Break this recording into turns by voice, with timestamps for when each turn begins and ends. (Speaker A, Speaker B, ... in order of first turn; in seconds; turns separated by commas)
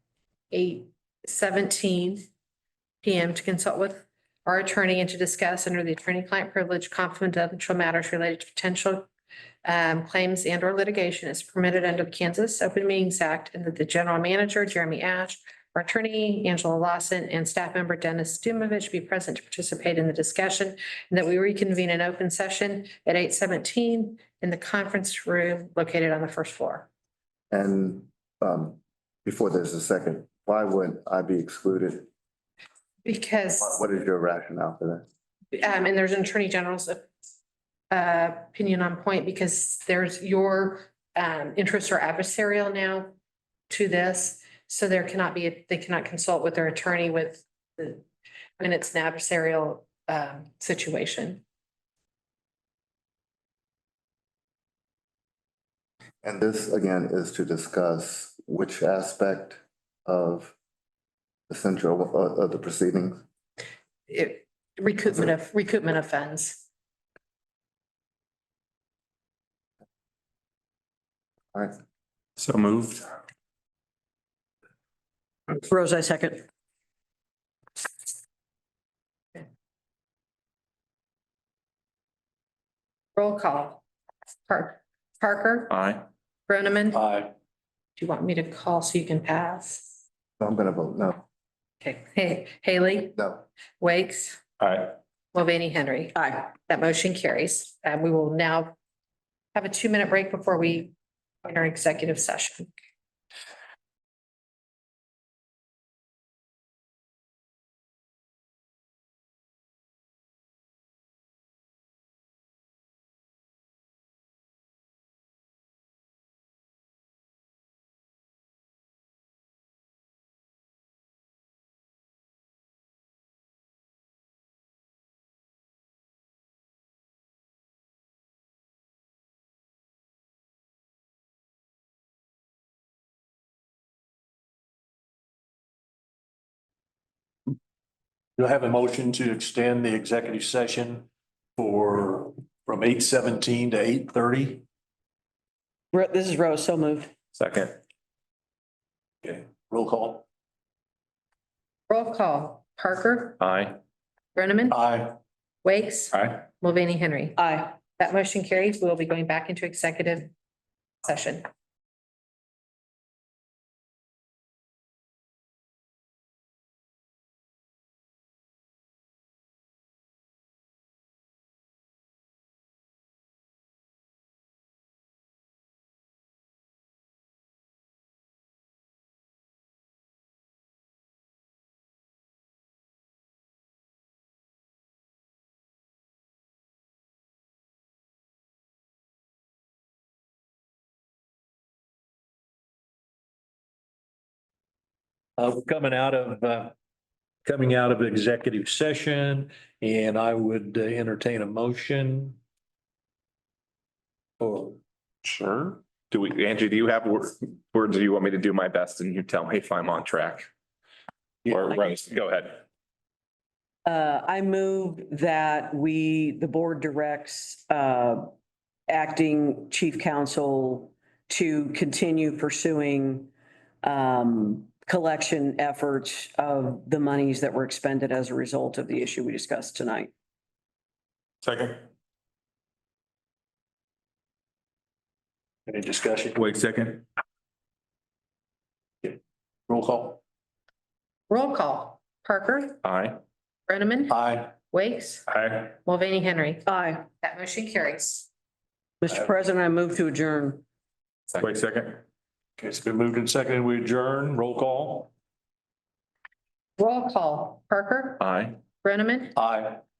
Speaker A: 0.5-2.3, Speaker A: 3.0-9.1, Speaker A: 9.6-26.9, Speaker B: 27.5-32.1, Speaker A: 33.0-33.8, Speaker B: 33.6-35.0, Speaker A: 35.5-37.0, Speaker A: 37.9-43.1, Speaker A: 43.7-48.0, Speaker A: 48.6-51.4, Speaker B: 56.2-60.5, Speaker B: 61.5-63.2, Speaker A: 64.1-66.6, Speaker C: 72.4-73.1, Speaker D: 75.5-76.4, Speaker A: 83.2-83.8, Speaker A: 84.5-85.8, Speaker C: 85.7-86.0, Speaker A: 86.5-87.0, Speaker E: 86.9-87.3, Speaker A: 88.0-89.9, Speaker B: 90.4-91.2, Speaker A: 91.8-94.4, Speaker C: 94.6-94.9, Speaker A: 95.3-98.7, Speaker D: 96.2-96.5, Speaker A: 99.5-102.7, Speaker E: 138.3-144.6, Speaker D: 145.9-147.1, Speaker C: 147.3-147.8, Speaker E: 149.2-150.2, Speaker A: 151.9-153.4, Speaker C: 153.4-153.8, Speaker A: 154.3-154.8, Speaker E: 154.7-155.2, Speaker A: 155.6-160.3, Speaker C: 156.1-156.4, Speaker D: 157.4-157.7, Speaker A: 161.0-161.5, Speaker E: 195.4-196.7, Speaker E: 197.4-202.4, Speaker E: 204.4-204.8, Speaker C: 205.2-210.5, Speaker C: 211.4-212.6, Speaker D: 213.8-218.3, Speaker D: 218.9-223.3, Speaker D: 223.8-230.1, Speaker C: 231.4-231.8, Speaker E: 235.7-236.4, Speaker C: 236.4-237.0, Speaker E: 239.7-240.2, Speaker A: 241.3-242.8, Speaker C: 242.8-243.2, Speaker A: 243.7-246.7, Speaker E: 244.1-244.5, Speaker C: 245.3-245.6, Speaker D: 246.7-247.0, Speaker A: 247.2-248.3, Speaker D: 249.0-250.6, Speaker C: 251.3-252.0, Speaker E: 252.6-255.1, Speaker A: 256.8-258.2, Speaker C: 258.2-258.6, Speaker A: 258.8-259.4, Speaker E: 259.4-259.8